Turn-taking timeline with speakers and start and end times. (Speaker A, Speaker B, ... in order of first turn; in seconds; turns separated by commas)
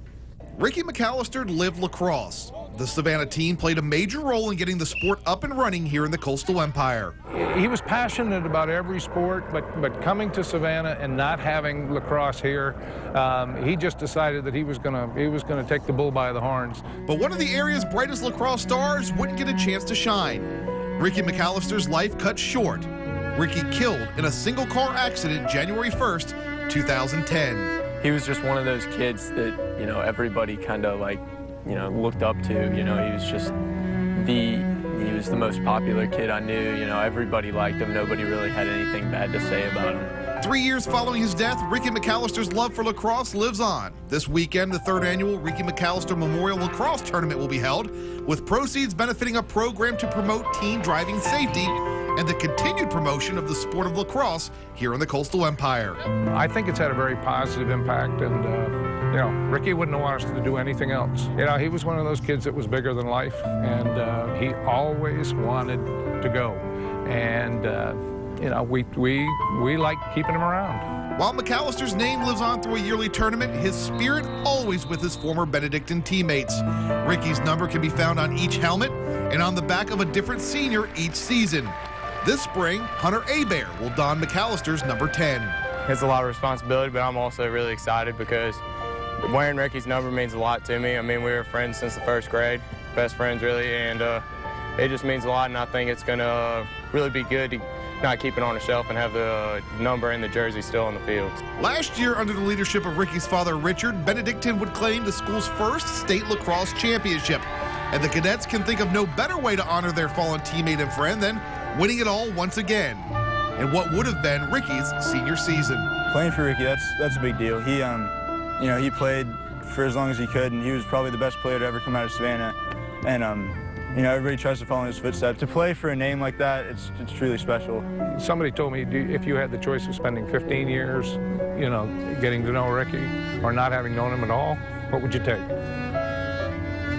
Speaker A: 0.6-7.1, Speaker B: 7.3-16.8, Speaker A: 17.1-20.5, Speaker A: 21.0-27.7, Speaker C: 28.0-33.5, Speaker C: 34.1-40.1, Speaker A: 40.4-56.0, Speaker B: 56.3-70.8, Speaker A: 71.2-85.5, Speaker D: 85.9-88.6, Speaker D: 89.2-94.2, Speaker D: 94.8-101.4, Speaker A: 101.6-115.9, Speaker E: 116.1-127.8, Speaker B: 128.1-135.5